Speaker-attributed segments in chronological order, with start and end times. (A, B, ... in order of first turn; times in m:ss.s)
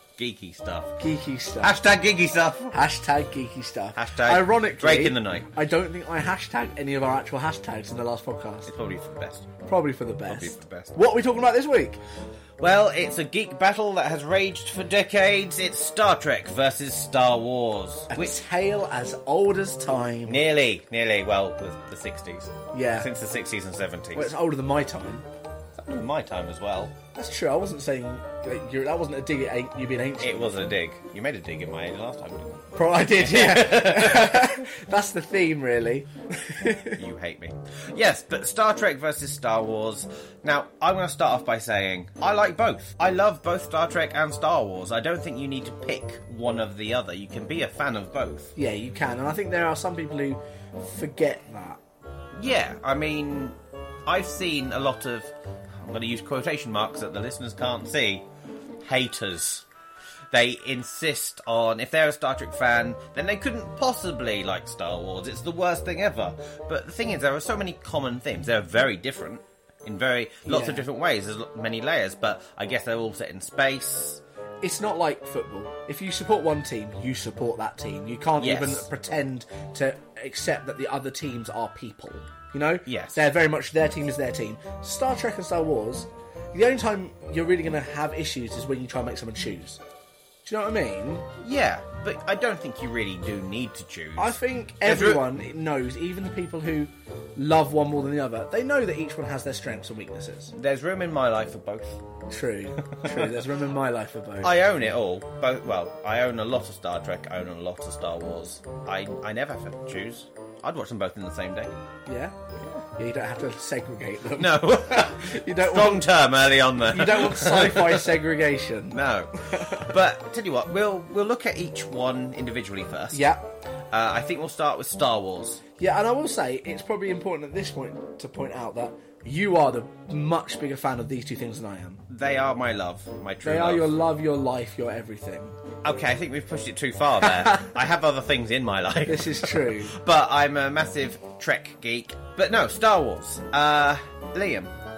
0:00.2-0:01.0 A
0:01.0-0:01.8 B
0:01.6-0:02.8 A
0:02.7-0:08.7 B
0:03.9-0:05.5 A
0:08.6-0:09.5 A
0:09.6-0:12.0 B
0:10.3-0:11.0 A
0:12.6-0:18.4 A
0:18.1-0:20.4 B
0:20.2-0:24.3 A
0:22.7-0:23.1 B
0:24.1-0:25.2 B
0:25.7-0:26.9 A
0:27.1-0:30.6 B
0:30.2-0:34.7 A
0:32.7-0:37.0 B
0:36.9-0:48.5 A
0:48.6-0:51.8 B
0:52.3-0:58.3 A
0:58.8-0:59.6 A
1:00.3-1:14.2 A
1:10.4-1:10.8 B
1:14.6-1:29.8 B
1:18.4-1:18.9 A
1:22.8-1:23.2 A
1:30.4-1:31.2 B
1:31.4-1:35.3 A
1:34.2-1:40.5 B
1:40.5-1:42.0 A
1:42.3-1:44.5 B
1:43.0-1:43.4 A
1:44.4-1:51.7 A
1:52.0-1:56.1 B
1:54.4-1:58.2 A
1:56.8-1:59.8 B
1:58.9-2:03.2 A
2:03.1-2:03.4 B
2:03.9-2:05.6 A
2:05.8-2:12.0 B
2:12.1-2:13.9 A
2:13.4-2:15.6 B
2:15.8-2:24.7 A
2:19.0-2:20.0 B